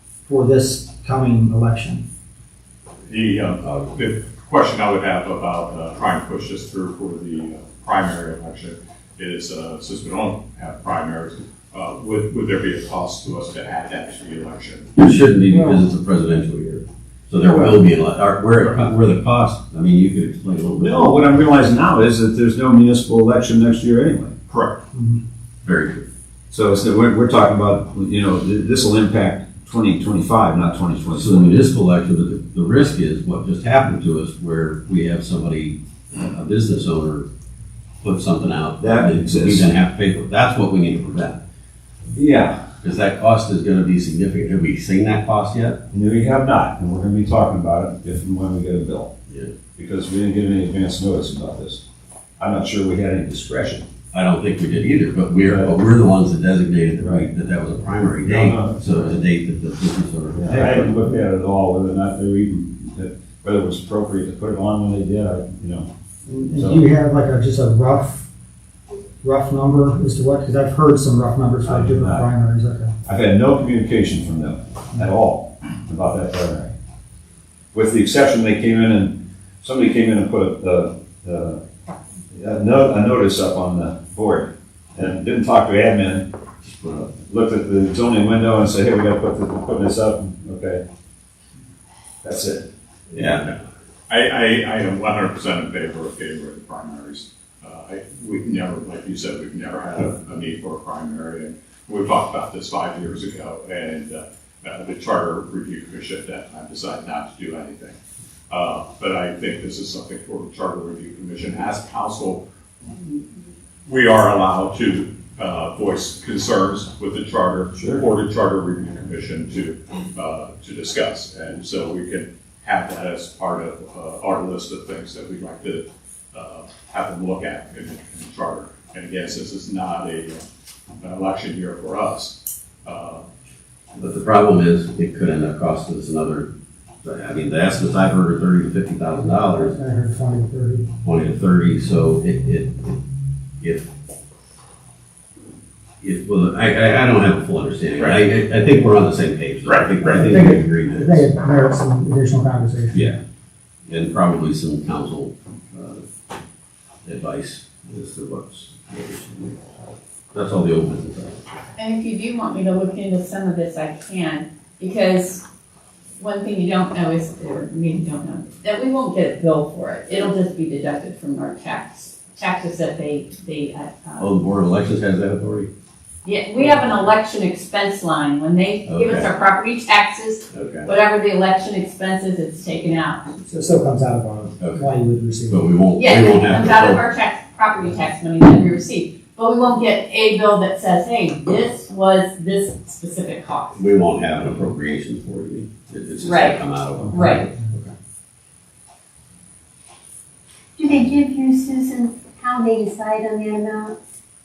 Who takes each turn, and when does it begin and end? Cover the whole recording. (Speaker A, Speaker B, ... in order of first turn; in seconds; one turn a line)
Speaker A: 0.2-2.0
Speaker B: 3.1-14.9
Speaker C: 3.6-3.9
Speaker C: 15.0-21.2
Speaker A: 15.5-15.8
Speaker D: 20.8-24.4
Speaker B: 24.5-24.8
Speaker A: 24.9-25.2
Speaker C: 25.6-26.1
Speaker D: 26.5-31.6
Speaker C: 31.1-37.3
Speaker C: 38.0-41.4
Speaker D: 38.8-39.7
Speaker D: 42.1-42.6
Speaker C: 42.8-45.8
Speaker D: 45.9-49.1
Speaker C: 49.3-49.5
Speaker D: 49.8-51.8
Speaker D: 52.4-53.9
Speaker C: 54.1-61.0
Speaker D: 57.0-57.3
Speaker D: 58.2-59.2
Speaker D: 60.4-65.9
Speaker A: 66.3-68.3
Speaker D: 66.5-66.8
Speaker A: 69.2-72.9
Speaker D: 71.6-72.3
Speaker D: 73.1-76.7
Speaker D: 77.7-81.6
Speaker D: 82.3-86.3
Speaker C: 86.6-87.2
Speaker D: 87.3-90.8
Speaker D: 92.2-92.7
Speaker C: 93.1-93.6
Speaker B: 94.1-108.0
Speaker B: 108.5-112.4
Speaker B: 113.9-130.4
Speaker D: 117.8-118.0
Speaker B: 131.0-133.2
Speaker C: 133.9-136.5
Speaker C: 137.0-139.8
Speaker A: 139.4-140.9
Speaker C: 141.0-143.0
Speaker C: 143.6-143.9
Speaker C: 146.0-151.3
Speaker A: 150.0-153.1
Speaker C: 152.9-153.2
Speaker C: 153.9-156.1
Speaker C: 157.1-159.6
Speaker C: 160.3-161.6
Speaker E: 161.8-165.4
Speaker E: 166.2-174.3
Speaker C: 174.2-175.7
Speaker E: 176.2-183.3
Speaker C: 178.8-179.3
Speaker C: 180.5-180.9
Speaker A: 183.4-185.7
Speaker C: 184.6-184.9
Speaker C: 185.5-187.0
Speaker E: 185.9-193.8
Speaker C: 193.8-197.9
Speaker E: 196.2-196.6
Speaker E: 197.1-197.5
Speaker F: 200.8-204.0